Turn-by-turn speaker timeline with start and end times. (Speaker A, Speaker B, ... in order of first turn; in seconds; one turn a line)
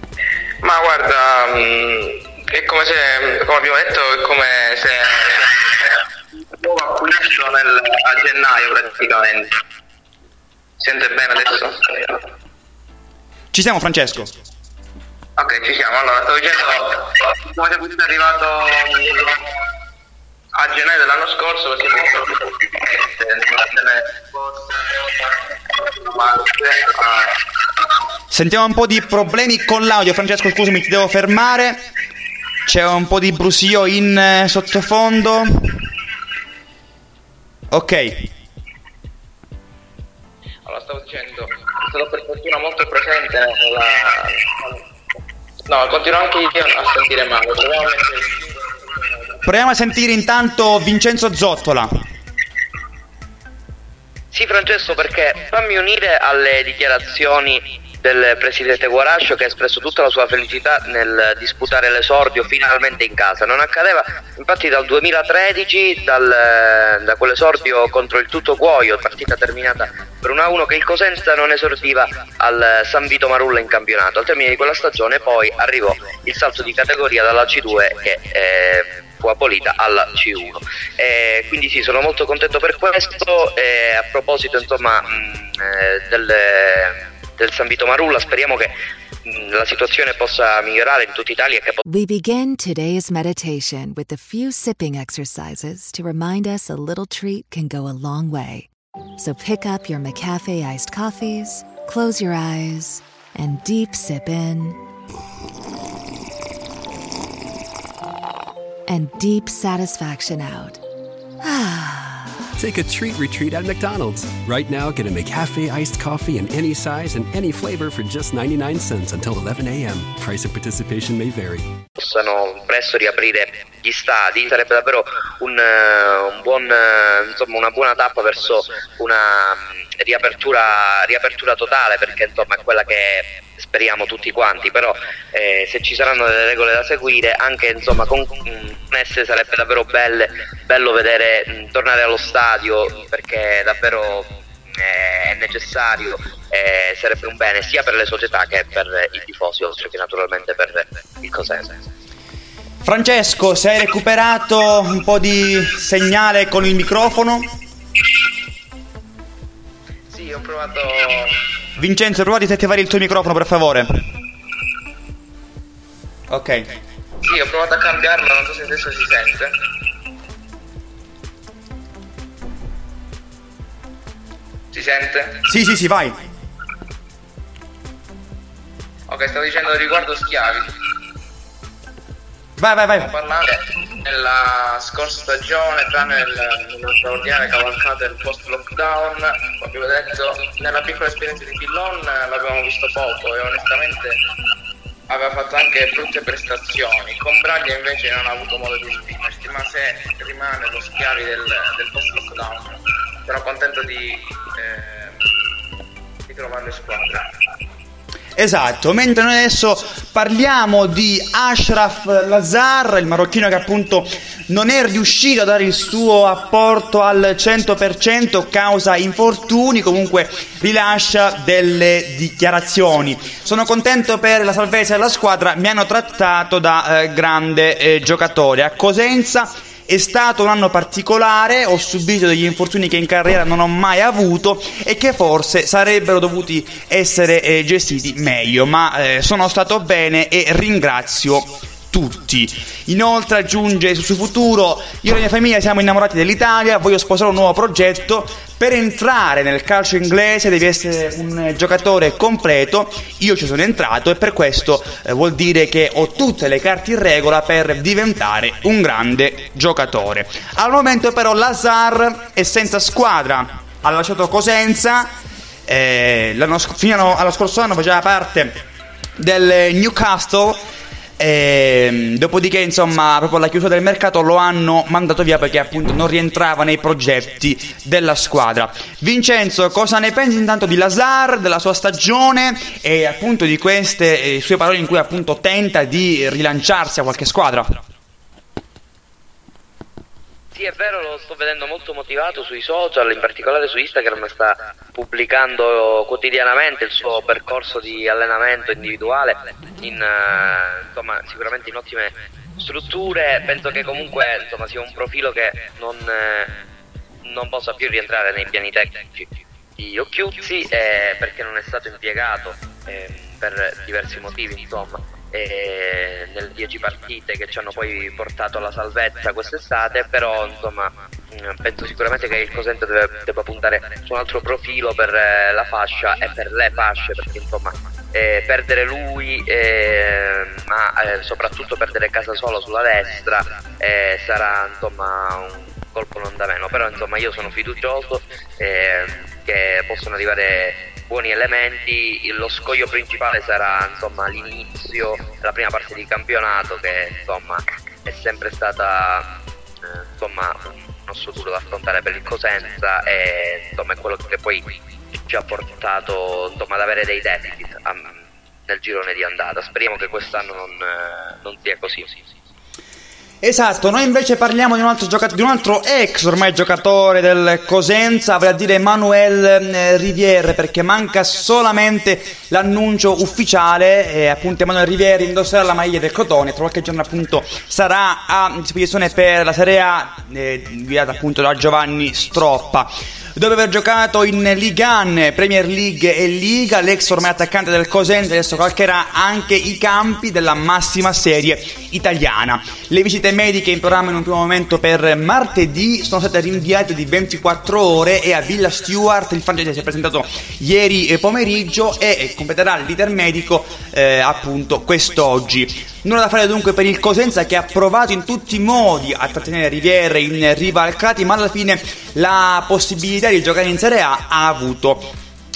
Speaker A: 0.6-9.6
Speaker A: 10.8-12.2
Speaker B: 13.5-14.3
Speaker A: 15.4-19.4
Speaker A: 20.5-27.4
Speaker B: 28.3-31.8
Speaker B: 32.6-35.8
Speaker B: 37.7-38.3
Speaker A: 40.6-44.8
Speaker A: 45.6-49.4
Speaker B: 49.4-51.9
Speaker C: 54.3-88.7
Speaker C: 89.2-91.8
Speaker D: 91.8-104.8
Speaker D: 108.9-110.8
Speaker D: 111.4-112.4
Speaker E: 112.6-121.7
Speaker C: 122.0-151.8
Speaker B: 152.8-157.5
Speaker A: 160.1-161.5
Speaker B: 161.8-163.9
Speaker B: 166.3-166.7
Speaker A: 167.2-169.5
Speaker A: 174.7-175.4
Speaker B: 175.4-176.2
Speaker A: 179.1-180.7
Speaker B: 182.6-183.1
Speaker A: 183.0-194.2
Speaker A: 195.1-205.5
Speaker A: 206.3-207.3
Speaker B: 208.4-265.1
Speaker B: 265.6-268.6
Speaker B: 269.2-270.6
Speaker B: 271.2-287.8
Speaker C: 290.5-306.5
Speaker C: 307.2-349.3
Speaker C: 349.8-354.7
Speaker C: 355.3-362.1
Speaker B: 363.4-415.1